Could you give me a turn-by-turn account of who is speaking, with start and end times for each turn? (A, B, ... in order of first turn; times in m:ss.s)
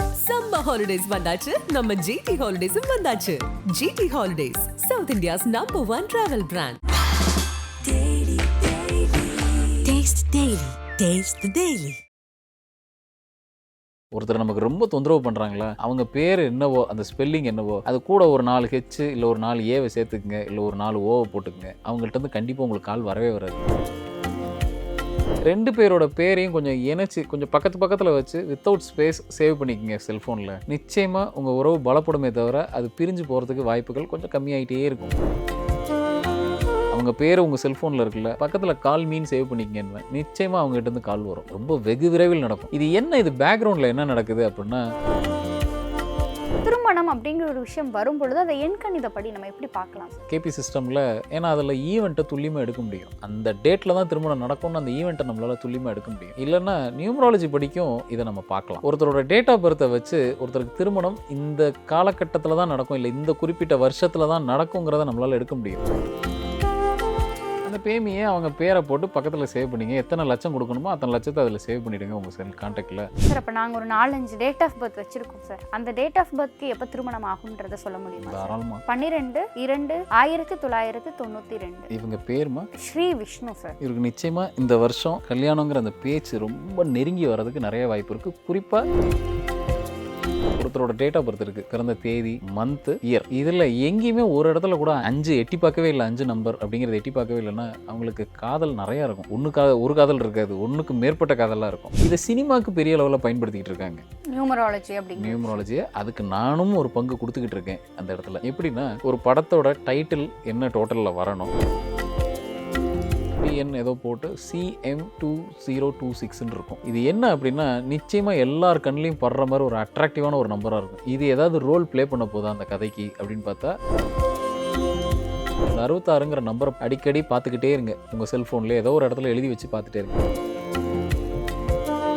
0:00.2-0:06.8 A
0:07.8-0:12.0 A
0:14.1-0:23.7 B
0:25.5-0:35.2 B
0:36.9-0:44.8 B
0:46.6-0:50.2 C
0:50.3-1:05.9 B
1:07.6-1:13.1 B
1:13.3-1:21.9 C
1:18.2-1:18.8 B
1:21.9-1:22.7 B
1:22.8-1:23.8 C
1:23.8-1:28.8 B
1:30.6-1:44.0 B
1:44.3-1:45.6 C
1:45.2-1:51.5 B
1:53.4-2:03.8 B
2:05.7-2:10.2 B